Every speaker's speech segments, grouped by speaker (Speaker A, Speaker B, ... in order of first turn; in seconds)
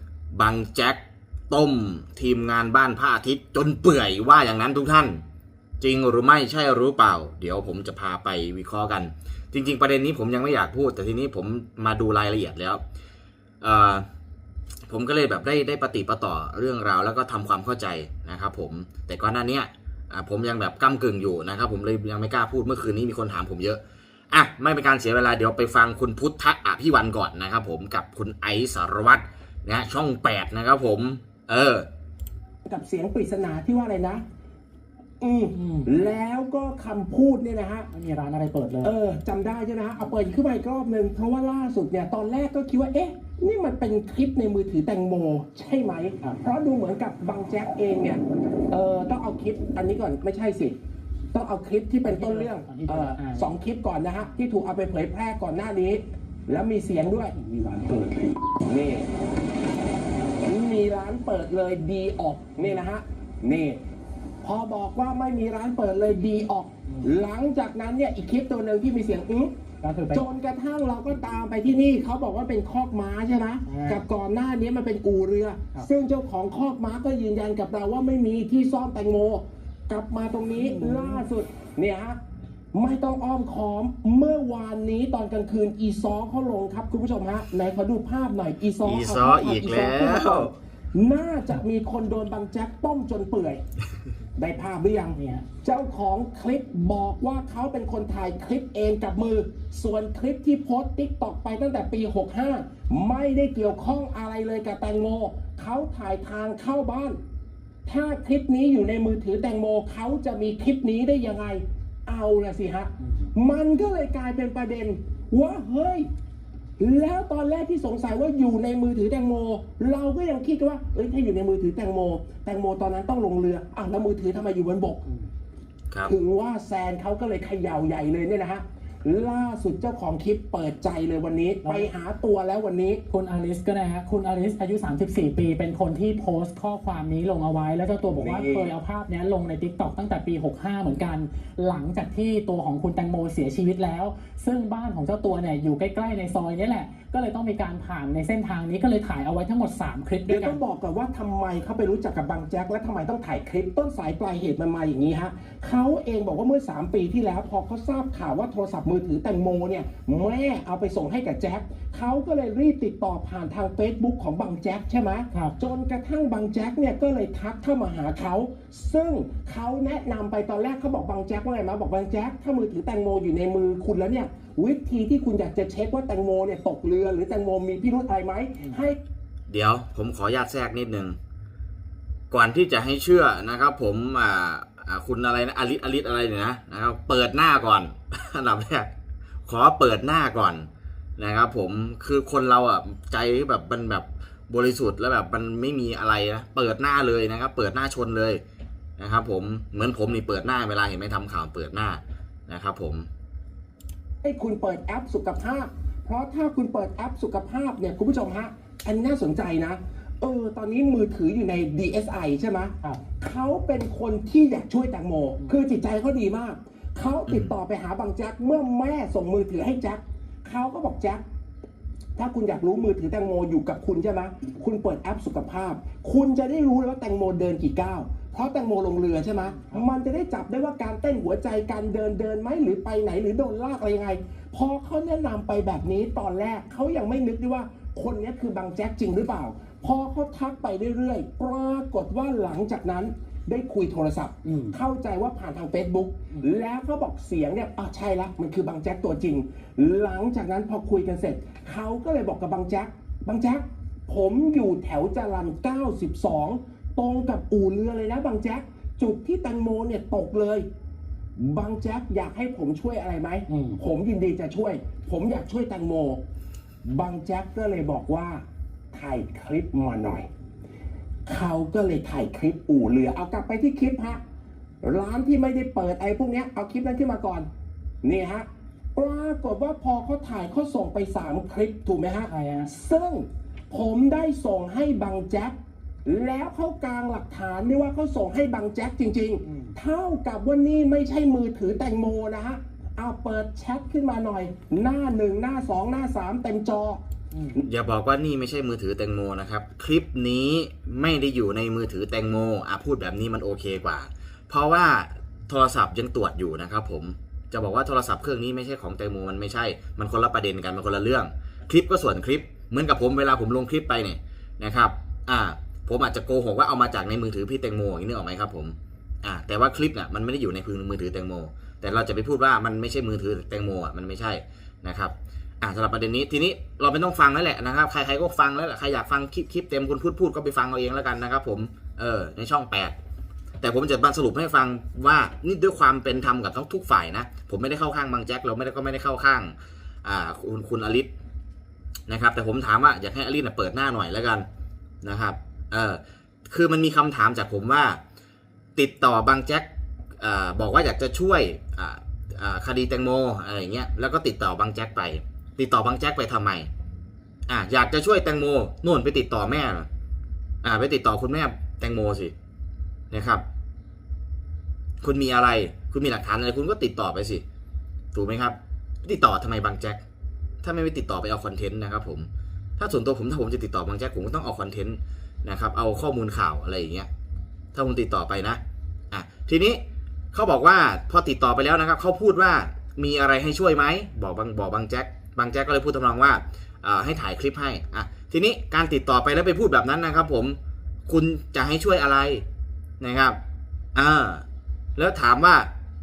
Speaker A: 0.3-5.2, 5.8-12.8, 13.6-14.1, 14.9-31.9, 88.8-90.5, 179.5-181.2, 182.3-188.9, 189.4-198.4, 199.0-203.1, 217.3-217.5, 297.6-332.9, 333.6-341.1, 342.1-344.4, 345.0-348.0, 348.8-356.7, 357.5-359.9, 360.6-362.3, 363.1-363.4, 365.0-367.4, 368.1-370.0, 370.6-377.1, 377.7-392.4, 393.0-393.4, 393.9-394.4, 394.9-395.7
Speaker B: 32.6-34.2, 35.2-37.9, 38.8-50.8, 51.3-57.4, 58.5-59.1, 60.4-63.8, 64.4-69.5, 70.1-82.2, 82.7-93.6, 94.4-107.2, 107.8-116.1, 116.8-125.0, 126.0-133.0, 138.1-138.7, 150.3-179.0, 204.2-221.2, 222.2-260.6, 261.4-266.2, 266.8-270.3, 271.2-274.2, 274.8-277.5, 278.0-297.0
Speaker C: 35.5-35.9, 37.9-38.9, 52.0-53.5, 57.1-58.4, 69.8-70.2, 73.7-74.0, 80.5-81.2, 95.1-95.4, 131.6-131.9, 133.1-150.6, 229.5-229.8, 244.4-244.8, 263.5-263.8, 282.2-282.7, 289.4-289.7, 297.3-297.6